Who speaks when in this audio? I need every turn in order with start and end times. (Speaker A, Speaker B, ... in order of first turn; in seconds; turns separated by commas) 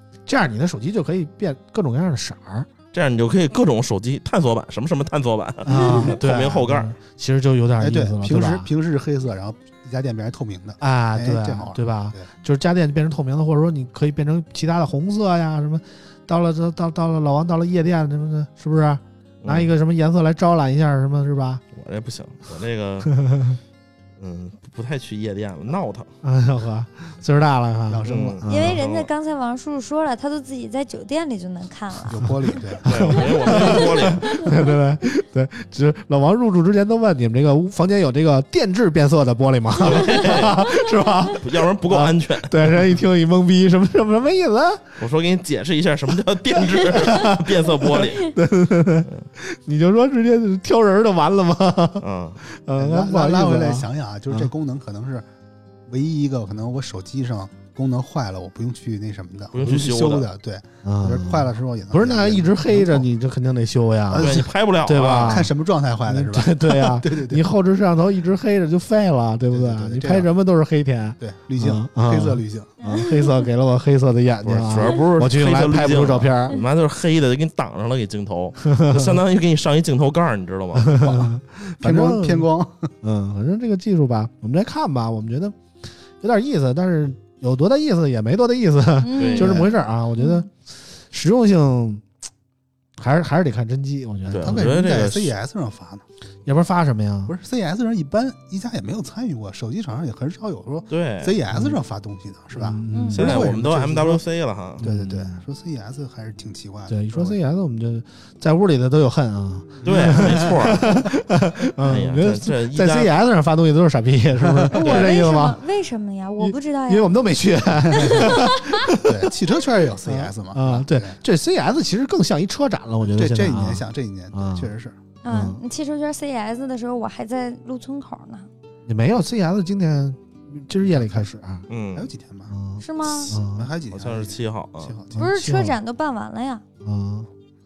Speaker A: 0.2-2.7, Speaker B: 2.9-6.9, Speaker A: 5.6-8.7, Speaker C: 5.7-6.1, Speaker C: 7.8-12.3, Speaker A: 10.8-21.6, Speaker B: 19.4-19.7, Speaker B: 21.7-23.2, Speaker A: 23.1-23.6, Speaker B: 24.2-26.1, Speaker A: 26.2-28.8, Speaker C: 27.9-28.4, Speaker B: 28.1-29.1, Speaker D: 28.5-32.2, Speaker C: 32.1-32.9, Speaker B: 32.8-34.4, Speaker A: 32.8-44.9, Speaker B: 39.8-40.7, Speaker B: 41.4-42.9, Speaker B: 45.0-48.3, Speaker A: 47.0-54.5, Speaker B: 52.0-52.4, Speaker C: 52.8-55.2, Speaker C: 55.9-63.0, Speaker B: 59.5-60.3, Speaker A: 60.8-65.5, Speaker C: 64.1-64.5, Speaker B: 64.2-65.5, Speaker C: 65.2-67.4, Speaker A: 66.0-76.6, Speaker C: 69.5-70.3, Speaker C: 71.2-72.7, Speaker D: 72.8-73.4, Speaker B: 74.4-81.2, Speaker A: 78.6-79.2, Speaker A: 80.8-82.5, Speaker C: 81.8-82.9, Speaker A: 83.0-85.6, Speaker A: 86.2-92.0, Speaker D: 89.0-89.6, Speaker B: 89.1-89.7, Speaker C: 89.4-89.7, Speaker D: 90.2-90.5, Speaker A: 93.0-94.7, Speaker C: 94.3-96.0, Speaker B: 94.3-95.3, Speaker A: 96.4-97.3, Speaker C: 97.3-104.2, Speaker B: 100.9-101.4, Speaker A: 101.5-101.8, Speaker A: 102.5-103.5, Speaker D: 102.9-103.2, Speaker B: 103.1-104.8, Speaker A: 104.8-105.4, Speaker C: 104.8-107.3, Speaker A: 106.9-115.6, Speaker C: 109.7-110.8, Speaker B: 109.8-111.0, Speaker B: 111.8-113.1, Speaker C: 114.5-114.7, Speaker D: 114.7-117.1, Speaker B: 114.8-115.1, Speaker A: 116.4-119.3, Speaker C: 117.8-118.4, Speaker D: 118.0-118.7, Speaker C: 119.0-121.2, Speaker A: 120.0-124.7, Speaker C: 123.0-125.0, Speaker D: 125.2-128.5, Speaker A: 125.3-125.6, Speaker A: 128.8-131.7, Speaker B: 131.7-132.1, Speaker C: 131.9-132.5, Speaker A: 132.5-133.7, Speaker D: 132.8-133.3, Speaker C: 133.3-135.3, Speaker B: 133.9-135.0, Speaker A: 135.1-135.8, Speaker D: 135.2-136.6, Speaker A: 136.8-137.3